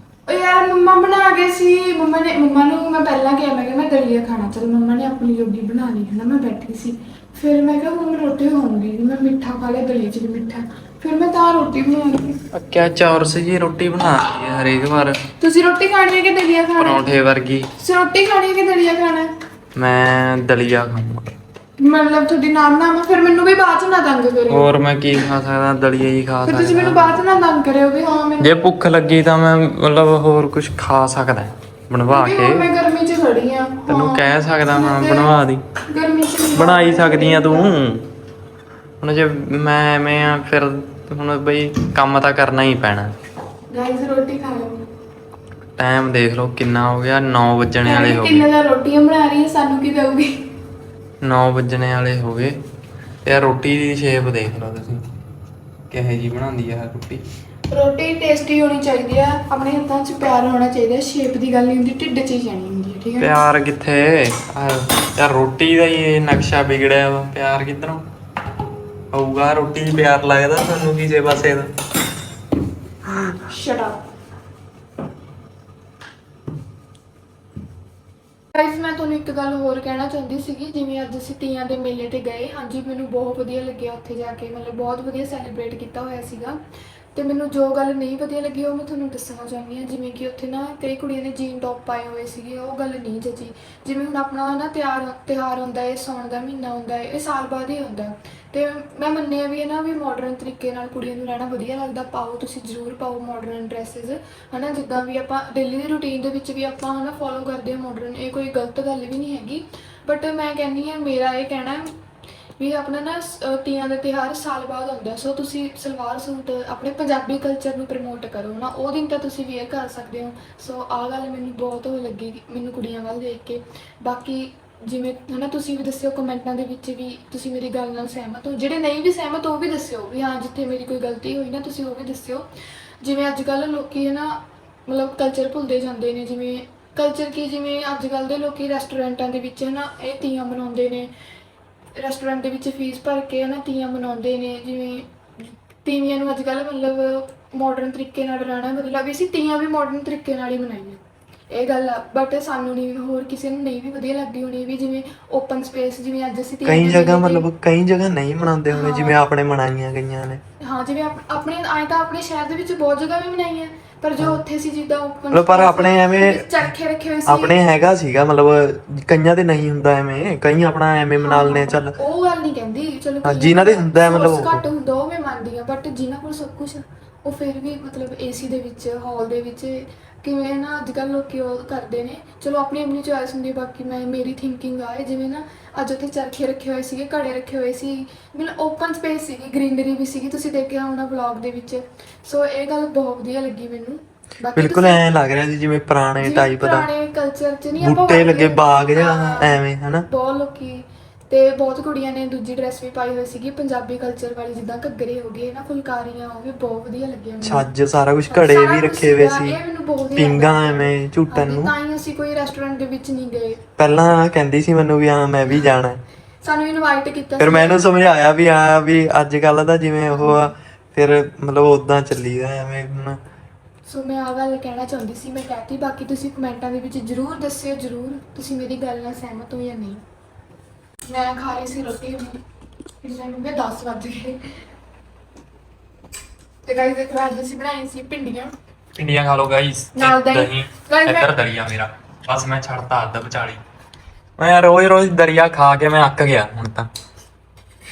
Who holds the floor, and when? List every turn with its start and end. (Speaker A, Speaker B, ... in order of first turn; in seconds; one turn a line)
Speaker A: 0.2-12.4
Speaker B: 12.5-15.2
Speaker A: 15.4-17.1
Speaker B: 16.8-17.7
Speaker A: 17.8-19.3
Speaker B: 19.7-21.3
Speaker A: 21.8-24.7
Speaker B: 24.5-27.2
Speaker A: 26.4-28.6
Speaker B: 28.4-32.7
Speaker A: 32.0-37.7
Speaker B: 33.9-35.6
Speaker B: 36.5-38.1
Speaker B: 39.0-43.1
Speaker A: 43.7-44.9
Speaker B: 45.8-48.5
Speaker A: 47.8-50.5
Speaker B: 51.2-52.5
Speaker B: 53.2-55.0
Speaker B: 55.9-57.2
Speaker A: 57.7-63.4
Speaker B: 63.2-68.0
Speaker B: 69.1-71.7
Speaker B: 73.1-73.3
Speaker A: 73.5-74.0
Speaker A: 78.5-86.6
Speaker A: 87.1-111.9
Speaker A: 112.6-132.5
Speaker A: 133.0-141.1
Speaker A: 141.9-145.1
Speaker A: 145.8-157.5
Speaker C: 156.6-160.4
Speaker A: 158.7-159.2
Speaker A: 160.6-167.6
Speaker C: 165.3-166.7
Speaker C: 167.2-171.9
Speaker A: 171.2-195.0
Speaker C: 173.2-174.6
Speaker C: 194.5-196.9
Speaker A: 196.2-207.7
Speaker C: 197.8-200.1
Speaker C: 207.4-209.6
Speaker A: 208.3-213.6
Speaker C: 210.2-211.7
Speaker C: 213.8-216.0
Speaker A: 216.4-217.8
Speaker C: 217.4-223.2
Speaker A: 220.1-220.5
Speaker A: 223.8-230.0
Speaker A: 231.1-232.4
Speaker A: 233.0-234.4
Speaker A: 236.7-238.5
Speaker B: 238.9-243.6
Speaker A: 239.9-241.3
Speaker B: 244.4-246.9